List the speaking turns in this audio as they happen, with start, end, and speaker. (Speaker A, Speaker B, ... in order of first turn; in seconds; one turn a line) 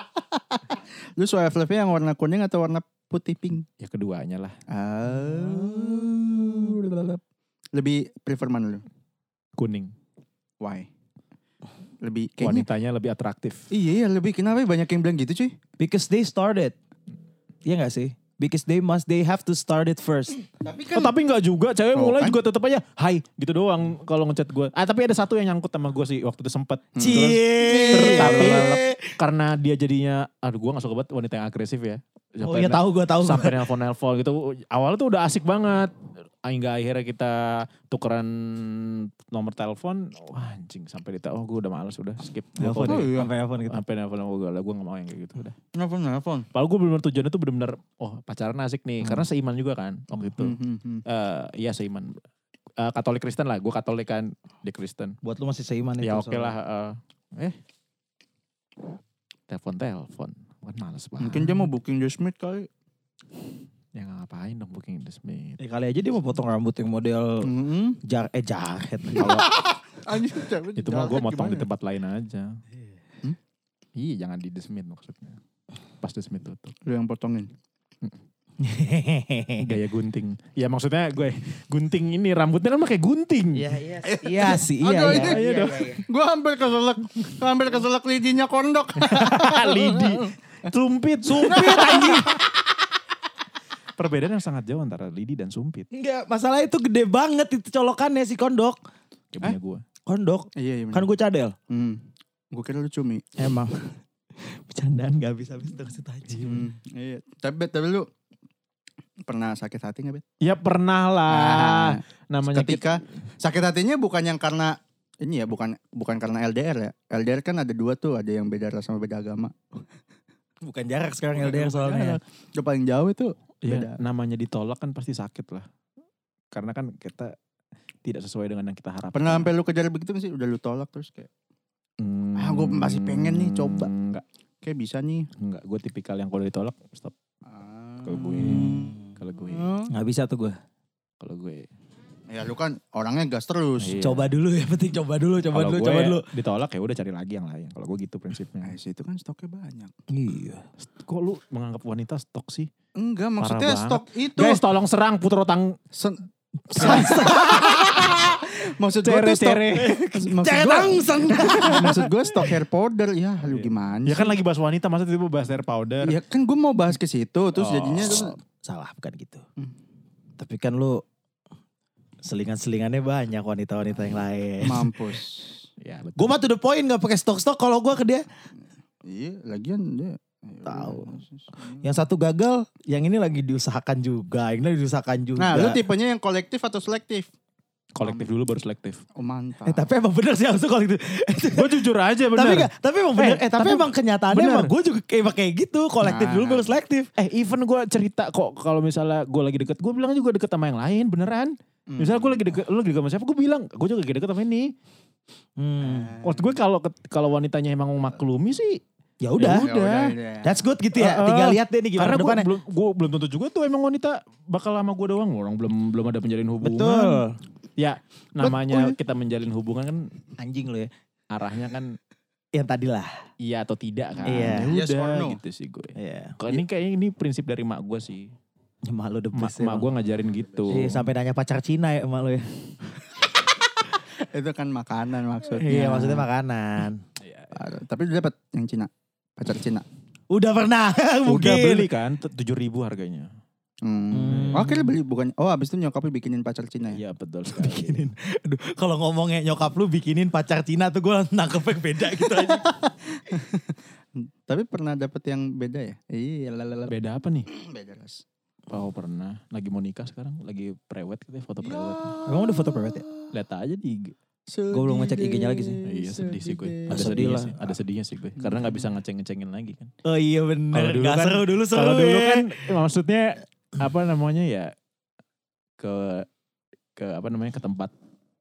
Speaker A: 0.3-3.6
Speaker B: 3.8-4.6
Speaker A: 4.7-7.2
Speaker C: 5.2-6.7
Speaker A: 7.7-8.8
Speaker B: 9.6-9.9
Speaker A: 10.6-10.9
Speaker A: 12.0-12.7
Speaker B: 12.4-13.7
Speaker A: 13.7-15.6
Speaker C: 15.8-16.8
Speaker C: 17.6-20.4
Speaker A: 20.6-21.1
Speaker B: 20.9-45.5
Speaker A: 21.9-22.4
Speaker A: 27.0-28.7
Speaker C: 27.0-29.1
Speaker C: 32.4-33.6
Speaker C: 42.6-43.8
Speaker A: 42.9-43.3
Speaker A: 45.8-46.5
Speaker B: 46.5-52.2
Speaker A: 50.4-51.0
Speaker B: 52.8-55.2
Speaker C: 55.2-56.5
Speaker B: 56.0-57.6
Speaker B: 59.5-61.7
Speaker A: 61.2-62.7
Speaker B: 64.0-65.6
Speaker C: 65.6-67.5
Speaker A: 67.4-68.0
Speaker C: 68.0-69.4
Speaker B: 69.2-69.5
Speaker A: 69.2-71.7
Speaker B: 70.8-72.6
Speaker B: 74.0-75.4
Speaker B: 76.0-76.8
Speaker A: 76.9-77.5
Speaker C: 78.6-79.7
Speaker B: 79.6-83.8
Speaker C: 83.5-86.0
Speaker A: 84.0-90.3
Speaker B: 85.1-85.8
Speaker B: 89.0-92.4
Speaker C: 91.2-92.4
Speaker A: 91.5-92.3
Speaker B: 94.0-95.9
Speaker C: 95.9-98.8
Speaker B: 99.3-99.8
Speaker C: 100.1-101.5
Speaker A: 100.5-101.1
Speaker A: 101.7-103.2
Speaker C: 103.4-106.7
Speaker A: 106.4-108.1
Speaker A: 109.2-110.3
Speaker B: 110.4-113.0
Speaker A: 111.3-119.8
Speaker C: 120.6-122.2
Speaker B: 121.4-122.2
Speaker A: 122.5-124.0
Speaker B: 123.7-125.7
Speaker B: 126.5-127.3
Speaker B: 128.1-129.5
Speaker A: 129.1-131.3
Speaker B: 132.0-134.2
Speaker A: 132.4-133.9
Speaker A: 134.6-135.3
Speaker B: 135.4-137.1
Speaker A: 137.5-139.9
Speaker B: 138.0-139.7
Speaker C: 138.4-139.1
Speaker C: 139.9-140.6
Speaker B: 141.2-141.7
Speaker A: 142.3-144.0
Speaker B: 143.8-144.3
Speaker C: 144.0-146.2
Speaker B: 145.5-148.7
Speaker A: 148.6-149.9
Speaker C: 150.1-150.6
Speaker B: 150.8-152.7
Speaker A: 153.0-154.6
Speaker B: 153.4-155.8
Speaker A: 155.9-156.2
Speaker C: 156.7-158.2
Speaker B: 156.8-157.4
Speaker A: 156.8-164.4
Speaker B: 159.0-160.0
Speaker C: 159.8-162.1
Speaker B: 161.7-162.1
Speaker B: 163.4-166.2
Speaker A: 166.0-168.3
Speaker B: 167.6-168.3
Speaker C: 168.1-169.4
Speaker C: 170.4-171.0
Speaker C: 172.2-174.9
Speaker A: 174.6-175.6
Speaker B: 175.8-176.4
Speaker C: 176.2-178.2
Speaker A: 179.1-181.9
Speaker C: 180.7-181.2
Speaker C: 181.8-185.8
Speaker A: 185.4-187.3
Speaker B: 187.9-189.0
Speaker A: 188.0-188.3
Speaker A: 189.2-189.9
Speaker C: 189.7-197.1
Speaker B: 191.6-194.7
Speaker A: 196.0-196.8
Speaker B: 197.2-204.7
Speaker A: 201.9-202.5
Speaker C: 205.6-206.2
Speaker A: 205.8-206.6
Speaker B: 206.2-208.8
Speaker C: 209.2-209.7
Speaker B: 209.4-210.1
Speaker A: 209.5-210.6
Speaker C: 210.4-212.5
Speaker B: 210.9-217.2
Speaker C: 216.6-217.4
Speaker B: 217.8-220.1
Speaker A: 218.4-218.9
Speaker C: 220.4-220.9
Speaker B: 221.3-221.9
Speaker C: 222.6-223.1
Speaker B: 223.4-228.3
Speaker C: 224.2-224.7
Speaker A: 224.5-225.4
Speaker C: 226.0-226.4
Speaker C: 228.9-229.9
Speaker B: 229.3-231.0
Speaker C: 230.7-232.5
Speaker A: 234.2-236.3
Speaker C: 235.6-237.0
Speaker B: 237.2-237.5
Speaker A: 237.5-239.8
Speaker C: 240.3-241.9
Speaker B: 241.3-243.3
Speaker A: 243.8-247.0
Speaker C: 244.1-244.9
Speaker B: 246.9-248.1
Speaker C: 247.5-252.7
Speaker A: 252.2-256.9
Speaker B: 256.9-257.5
Speaker A: 257.5-258.2
Speaker B: 258.7-262.1
Speaker A: 261.6-263.3
Speaker C: 262.3-263.1
Speaker B: 263.3-264.1
Speaker A: 264.5-267.2
Speaker C: 264.7-265.8
Speaker B: 265.9-269.9
Speaker C: 266.9-267.7
Speaker A: 268.4-268.9
Speaker C: 270.1-272.5
Speaker B: 270.7-274.7
Speaker B: 275.8-276.3
Speaker B: 277.0-277.9